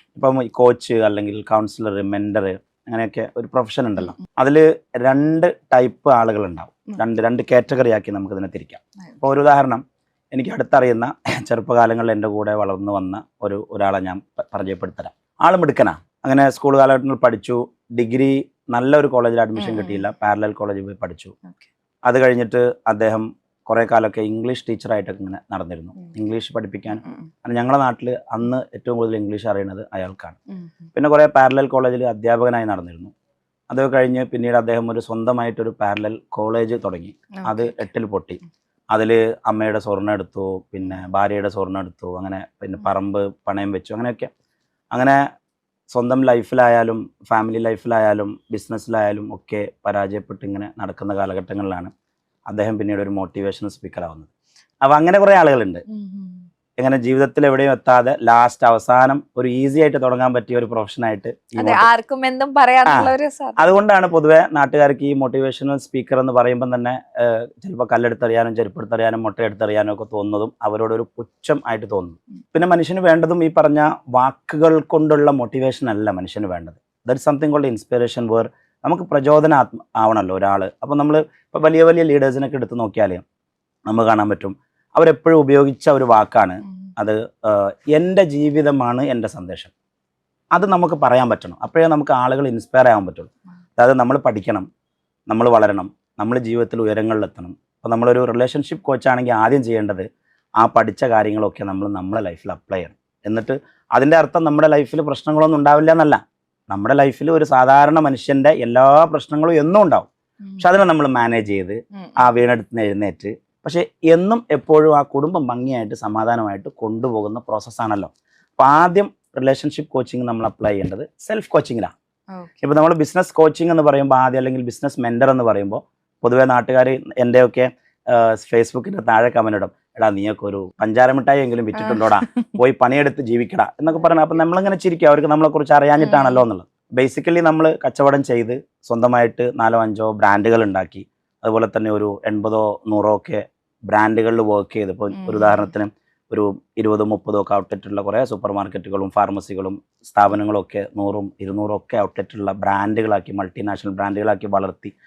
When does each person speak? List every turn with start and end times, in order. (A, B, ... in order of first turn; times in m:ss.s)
0:00.1-0:09.8 A
0:10.3-0:21.3 A
0:19.6-0:20.0 B
0:21.4-0:21.7 B
0:22.0-0:30.4 A
0:27.0-0:27.3 B
0:30.5-0:30.9 B
0:30.9-0:33.1 A
0:33.7-0:38.4 A
0:37.3-0:37.9 B
0:38.9-0:44.3 A
0:44.9-0:45.2 A
0:45.9-0:51.9 A
0:52.5-0:54.3 A
0:54.8-0:55.8 A
0:55.9-0:56.5 B
0:56.8-1:01.9 A
1:01.6-1:03.8 B
1:02.8-1:23.2 A
1:23.9-1:29.7 A
1:26.6-1:26.9 B
1:30.5-1:34.6 A
1:35.3-1:40.0 A
1:40.6-2:01.9 A
1:51.9-1:52.4 B
2:02.6-2:34.9 A
2:11.7-2:12.5 B
2:13.9-2:14.4 B
2:16.0-2:16.4 B
2:25.1-2:25.7 B